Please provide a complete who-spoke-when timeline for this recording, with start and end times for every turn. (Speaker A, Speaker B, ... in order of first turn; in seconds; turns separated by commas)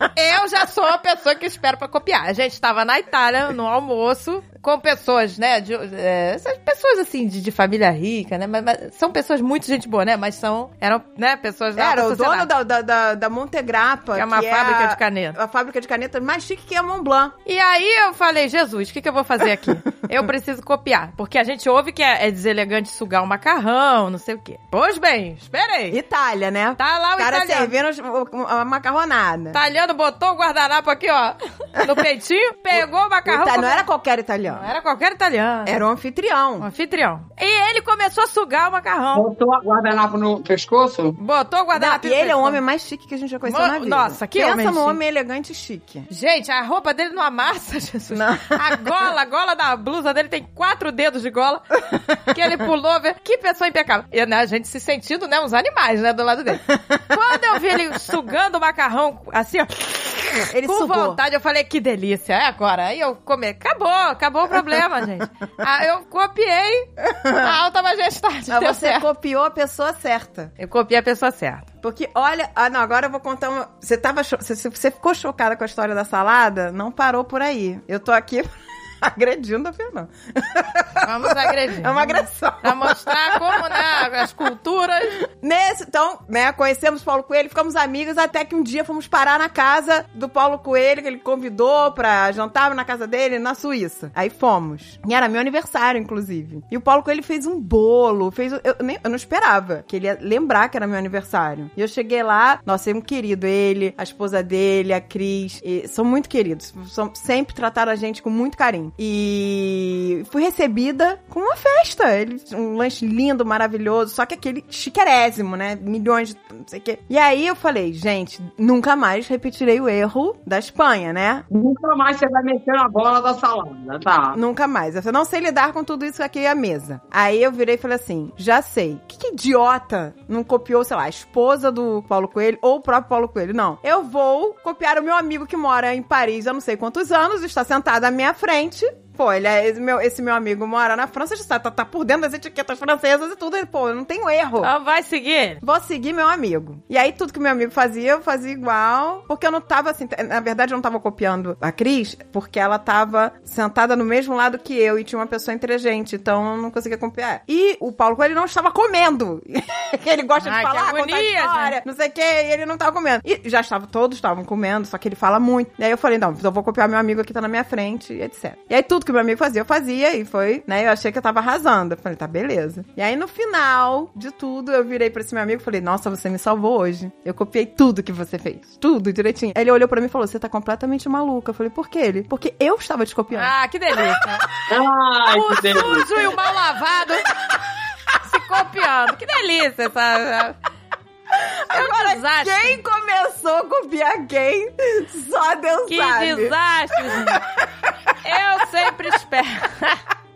Speaker A: 0.1-12.5, Speaker B: 11.8-17.3, Speaker A: 14.1-15.3, Speaker A: 17.4-26.0, Speaker B: 25.9-29.6, Speaker A: 26.8-27.7, Speaker A: 29.5-33.8, Speaker B: 32.7-34.7, Speaker A: 34.5-35.8, Speaker B: 35.6-36.6, Speaker A: 36.6-39.2, Speaker C: 39.1-41.2, Speaker A: 41.2-42.6, Speaker B: 41.7-46.1, Speaker A: 43.5-45.0, Speaker A: 46.1-69.0, Speaker B: 48.1-48.6, Speaker B: 60.5-61.2, Speaker B: 67.1-67.5, Speaker B: 68.5-70.5, Speaker A: 70.6-71.7, Speaker B: 71.8-83.8, Speaker A: 81.0-85.2, Speaker B: 85.4-121.4, Speaker C: 121.5-124.4, Speaker B: 124.3-144.7, Speaker A: 144.6-145.6, Speaker B: 145.6-184.2, Speaker A: 160.4-161.8, Speaker A: 183.3-184.4, Speaker C: 184.7-186.1, Speaker A: 185.3-187.3, Speaker A: 188.2-190.5, Speaker B: 191.4-197.6, Speaker A: 191.7-192.8, Speaker A: 195.9-197.4, Speaker A: 198.2-200.0